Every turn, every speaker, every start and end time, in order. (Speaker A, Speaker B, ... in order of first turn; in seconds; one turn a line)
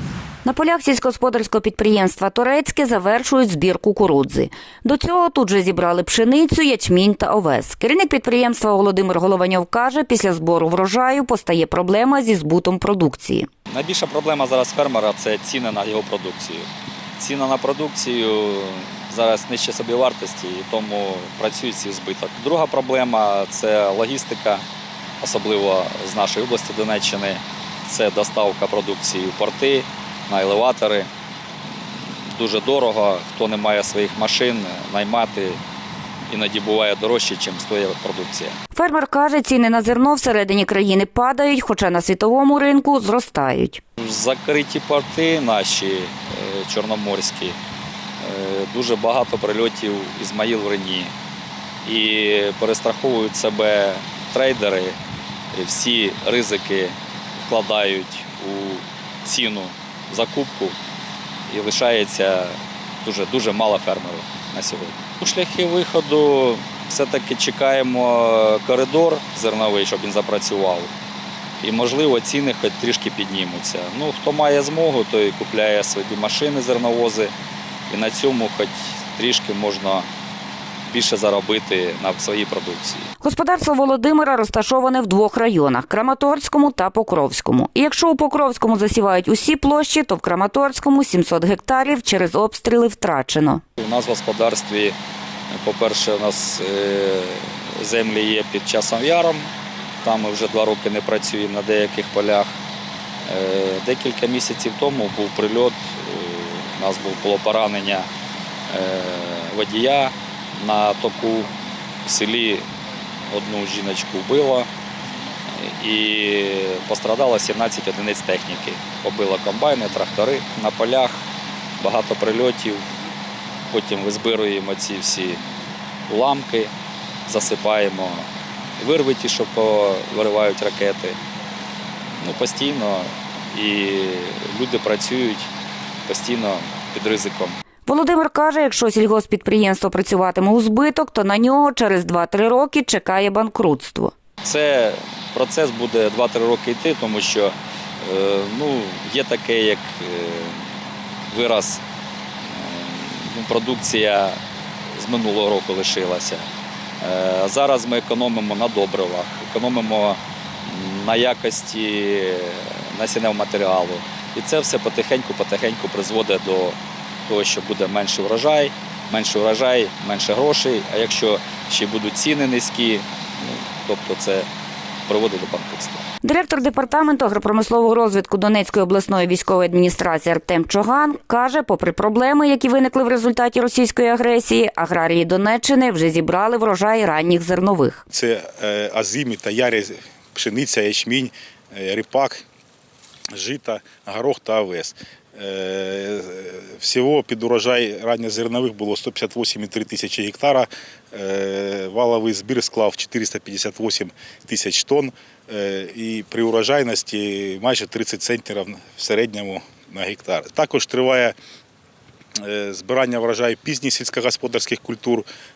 Speaker A: 0.5-13.5
Speaker B: 13.7-24.6
Speaker B: 25.2-31.1
Speaker B: 32.3-35.6
Speaker B: 36.3-38.5
Speaker A: 38.7-43.8
Speaker B: 44.0-47.6
Speaker B: 48.2-51.1
Speaker B: 51.8-55.0
Speaker B: 55.5-60.8
Speaker B: 61.5-70.9
Speaker B: 71.6-77.3
Speaker B: 77.9-80.1
Speaker B: 80.9-83.1
Speaker A: 83.2-93.6
Speaker B: 93.8-95.0
Speaker B: 95.5-99.5
Speaker B: 100.0-102.5
Speaker B: 103.2-108.1
Speaker B: 108.7-111.5
Speaker B: 112.0-112.7
Speaker B: 113.3-114.7
Speaker B: 115.5-121.2
Speaker B: 121.8-122.8
Speaker B: 123.7-125.4
Speaker B: 126.1-126.7
Speaker B: 127.3-128.3
Speaker B: 128.8-131.2
Speaker B: 132.2-135.5
Speaker B: 136.1-137.6
Speaker A: 137.8-144.1
Speaker B: 144.4-150.6
Speaker B: 151.3-151.8
Speaker B: 152.4-154.4
Speaker B: 154.9-156.5
Speaker B: 157.0-166.8
Speaker B: 167.3-174.5
Speaker B: 175.1-176.0
Speaker A: 176.2-188.0
Speaker C: 188.1-192.4
Speaker C: 193.3-211.3
Speaker C: 212.4-215.2